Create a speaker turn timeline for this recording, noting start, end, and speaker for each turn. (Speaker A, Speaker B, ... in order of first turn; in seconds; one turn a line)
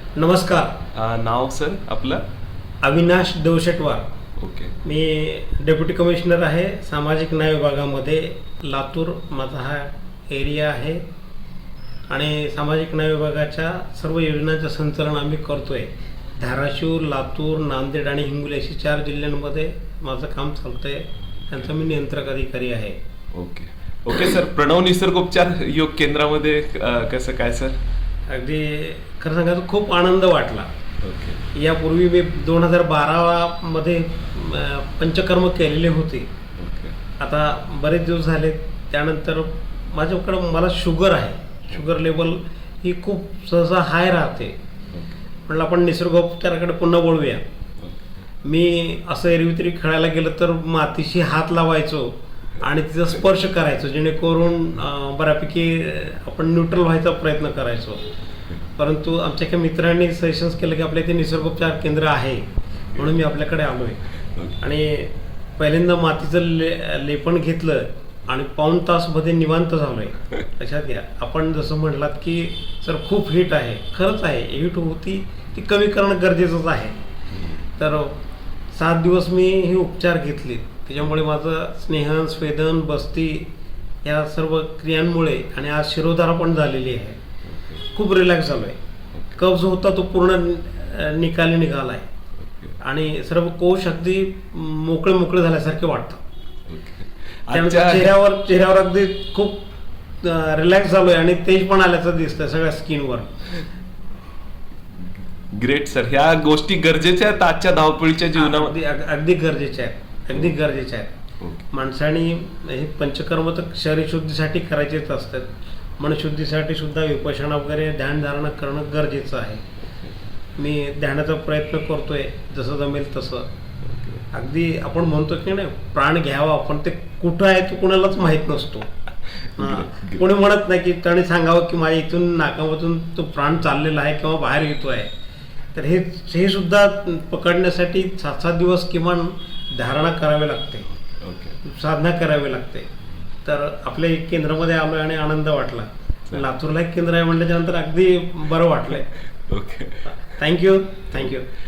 Speaker A: 0.1-0.8
Speaker B: 0.9-2.2
Speaker A: 2.8-4.0
Speaker B: 4.4-4.8
Speaker A: 4.8-11.0
Speaker A: 12.1-23.0
Speaker B: 23.3-27.8
Speaker A: 28.3-30.7
Speaker B: 31.0-31.4
Speaker A: 31.5-36.3
Speaker B: 36.6-37.0
Speaker A: 37.2-44.5
Speaker B: 44.9-45.2
Speaker A: 45.5-47.4
Speaker B: 47.8-48.0
Speaker A: 48.4-58.0
Speaker A: 58.8-64.0
Speaker A: 64.6-77.0
Speaker A: 77.8-78.2
Speaker A: 78.7-83.5
Speaker A: 84.0-87.2
Speaker B: 87.4-87.8
Speaker A: 87.9-88.8
Speaker A: 89.3-92.1
Speaker B: 92.4-92.8
Speaker A: 92.8-96.2
Speaker B: 96.7-98.1
Speaker A: 97.5-99.7
Speaker A: 100.2-103.5
Speaker B: 105.5-108.7
Speaker A: 108.3-111.1
Speaker A: 111.7-119.6
Speaker A: 120.6-123.5
Speaker B: 123.8-124.2
Speaker A: 124.3-128.9
Speaker B: 129.3-130.2
Speaker A: 129.6-135.1
Speaker A: 135.7-140.9
Speaker B: 141.2-141.6
Speaker A: 141.6-142.9
Speaker A: 143.4-149.1
Speaker B: 149.5-150.1
Speaker A: 150.1-151.5